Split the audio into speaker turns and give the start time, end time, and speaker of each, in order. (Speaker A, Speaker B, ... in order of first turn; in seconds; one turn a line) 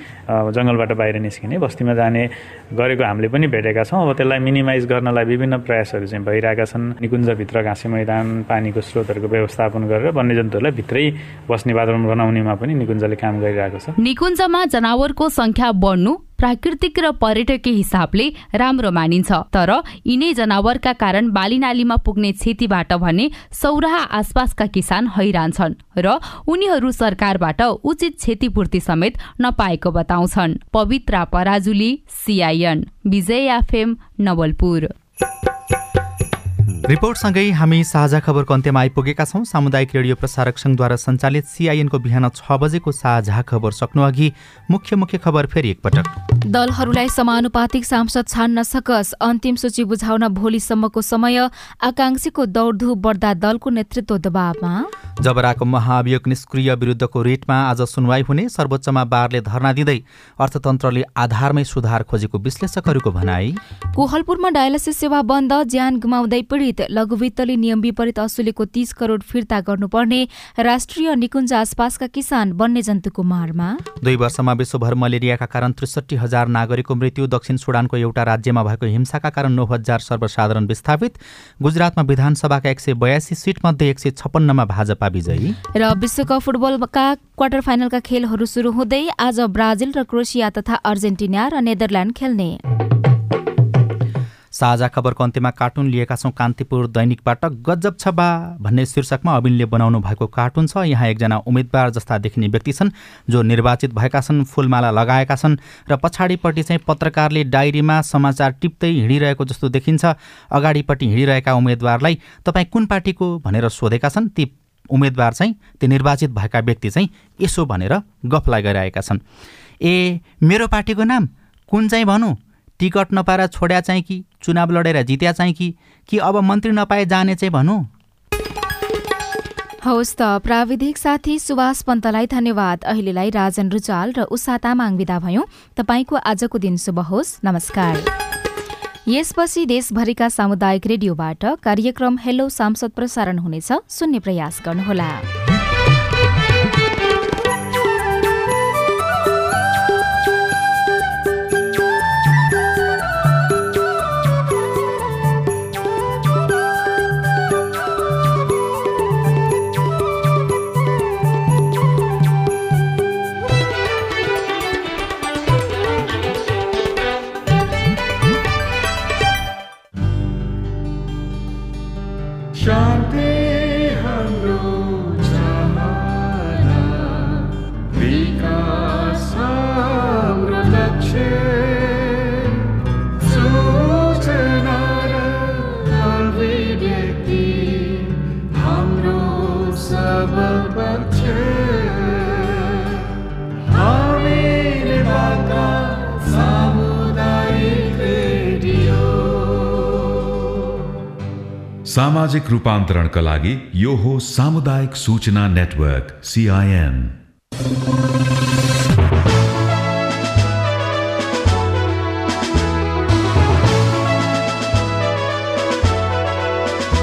Speaker A: 0.5-13.9
Speaker B: 14.0-34.9
Speaker C: 36.9-46.1
Speaker D: 46.5-54.9
Speaker C: 55.2-63.6
Speaker D: 64.0-73.8
Speaker C: 74.0-85.6
Speaker D: 85.8-92.6
Speaker C: 94.5-119.2
Speaker C: 119.8-127.9
Speaker D: 129.8-138.1
Speaker D: 139.1-145.2
Speaker E: 201.9-207.2